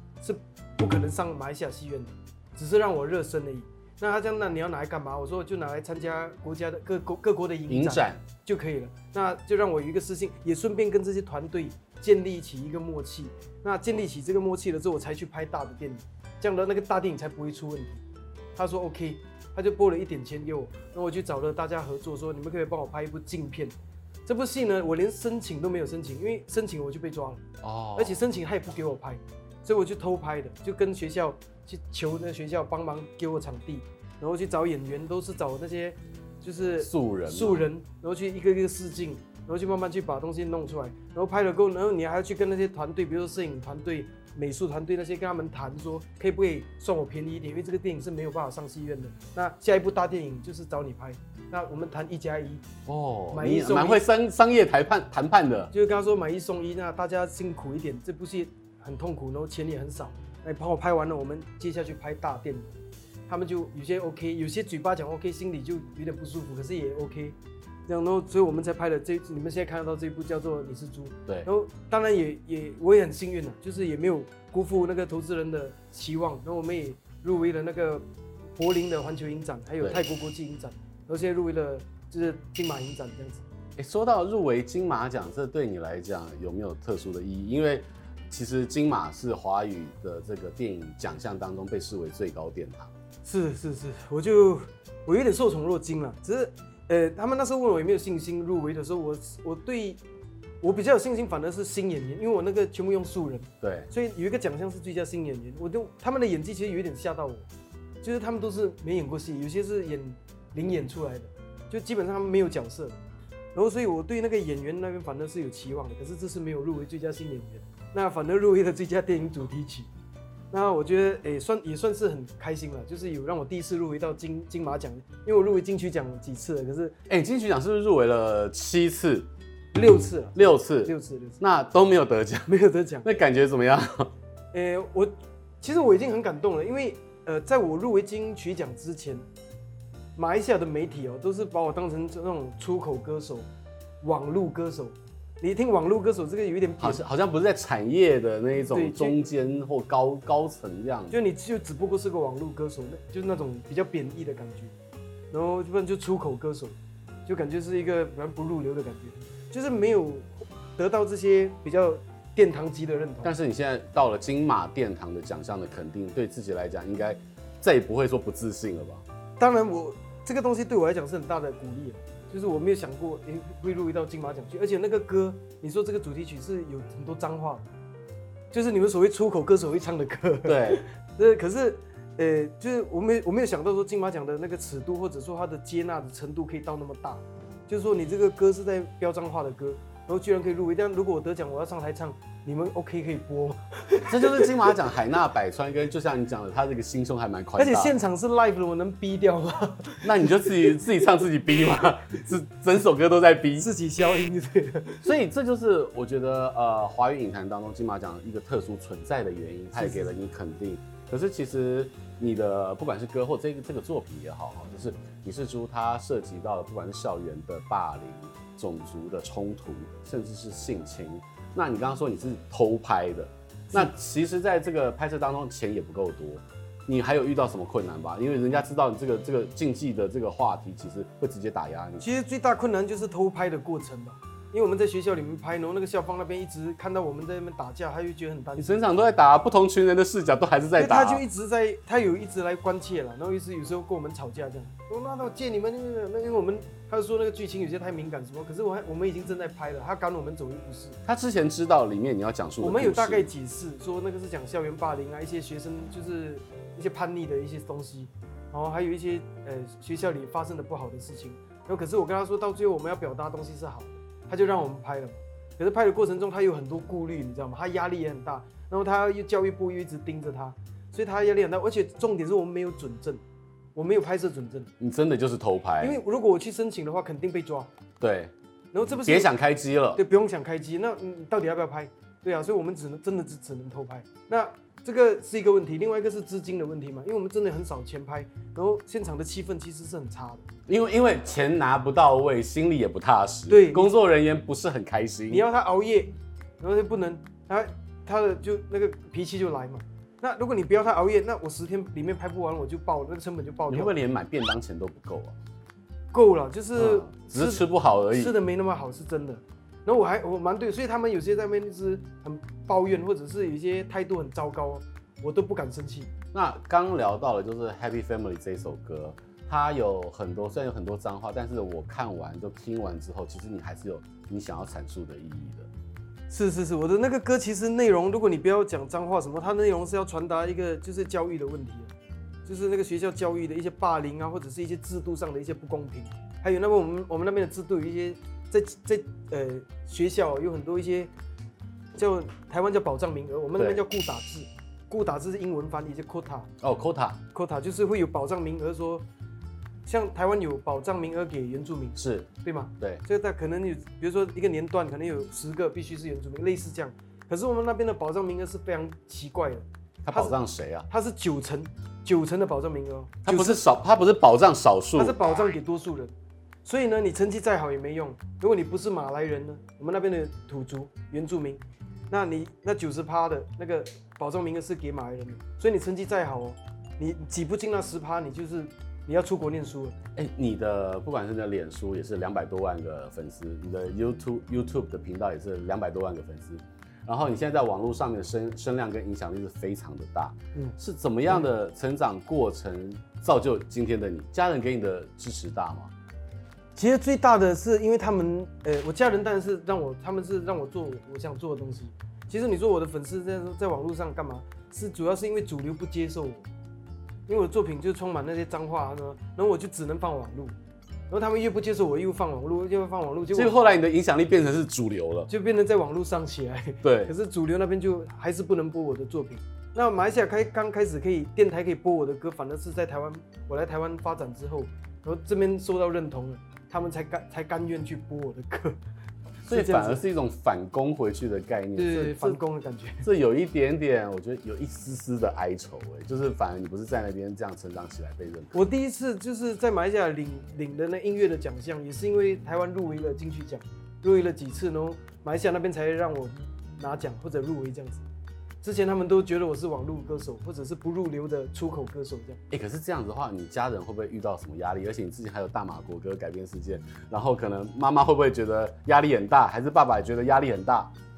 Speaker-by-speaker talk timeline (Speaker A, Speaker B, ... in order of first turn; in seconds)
Speaker A: 0.2-18.0, 18.6-23.7, 24.3-27.4, 28.0-52.6, 53.3-54.0, 55.7-62.7, 63.3-67.4, 67.9-78.0, 78.6-83.4, 93.2-100.0, 100.6-107.5, 108.0-113.0, 113.5-119.9, 120.5-127.0, 129.7-131.4, 132.5-133.1, 134.5-139.2, 140.2-143.5, 144.0-147.0, 148.7-149.2, 151.1-154.7, 155.3-163.3, 169.4-177.7, 178.5-194.8, 197.6-200.8, 203.6-205.1, 209.8-210.1, 232.0-238.8, 240.8-251.0, 252.6-273.2, 273.8-274.7, 275.8-277.7, 278.7-279.3, 279.9-290.4, 293.5-293.9, 295.3-303.9, 306.1-316.1, 326.3-331.9, 332.5-341.1, 341.9-346.5, 347.3-349.1, 349.9-363.6, 365.0-366.1, 366.6-380.0, 396.8-406.5, 407.3-410.6, 411.1-413.5, 415.3-428.8, 429.5-430.0, 431.8-433.1, 438.5-448.1, 448.6-452.4
Speaker B: 7.7-8.2, 27.6-28.2, 36.8-37.7, 52.9-55.7, 83.8-92.9, 103.6-103.9, 127.1-129.3, 130.3-132.5, 133.0-134.1, 146.8-151.2, 163.2-169.1, 180.4-180.8, 194.1-197.9, 200.0-203.7, 205.0-232.0, 238.6-241.2, 251.1-253.3, 274.8-276.0, 278.0-278.3, 279.0-280.0, 290.7-295.5, 303.7-305.4, 306.8-308.4, 316.3-325.7, 343.6-343.8, 346.6-347.2, 352.0-352.3, 360.0-360.9, 363.2-365.2, 380.1-395.9, 413.3-415.3, 416.8-417.1, 429.4-432.4, 433.0-438.6, 452.5-460.9